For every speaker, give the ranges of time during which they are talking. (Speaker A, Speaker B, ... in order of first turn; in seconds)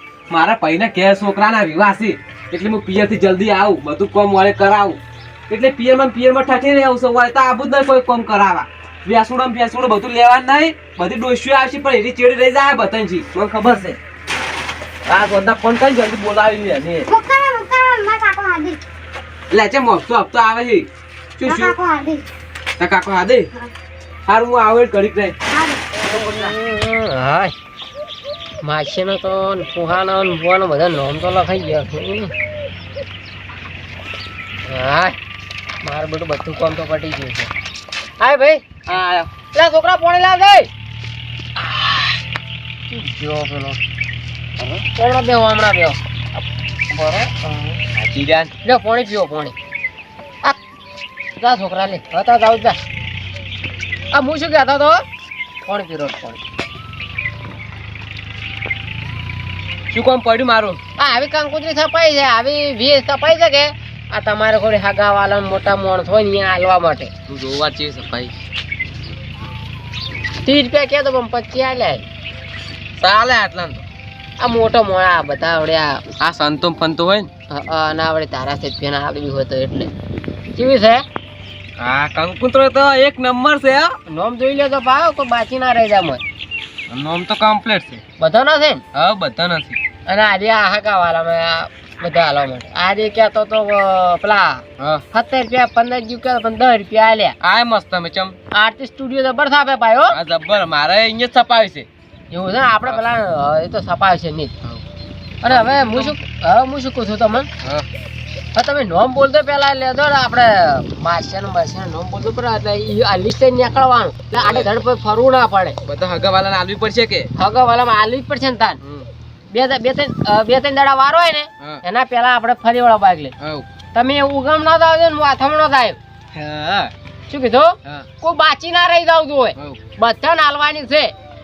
Speaker A: 0.3-14.0, 15.1-17.1, 19.5-20.9, 21.4-21.7, 22.8-23.5, 24.3-25.3, 38.9-39.3, 48.0-48.5, 59.9-60.8, 67.3-68.3, 73.0-73.8, 76.2-77.3, 81.8-84.0, 86.9-88.0, 88.9-89.8, 94.8-95.0, 97.4-98.3, 100.1-101.9, 105.5-106.2, 114.3-114.7, 115.8-117.3, 118.8-119.1, 123.4-123.7, 126.3-126.9
Speaker B: 17.1-18.8, 21.4-22.3, 25.5-25.8
Speaker C: 26.2-27.5, 28.6-32.3, 34.7-35.1, 35.8-37.5, 38.2-38.8, 39.5-40.7, 42.9-43.8, 44.9-46.0, 46.9-47.8, 48.6-49.5, 51.4-52.8, 54.1-55.0, 55.6-56.4, 61.0-67.1, 70.4-72.0, 74.4-76.0, 77.5-79.9, 80.5-81.0, 84.0-86.2, 88.2-88.8, 90.0-97.4, 98.5-100.2, 102.3-104.5, 105.4-107.5, 108.5-115.8, 117.3-118.8, 119.5-123.3, 123.9-126.0, 127.3-131.1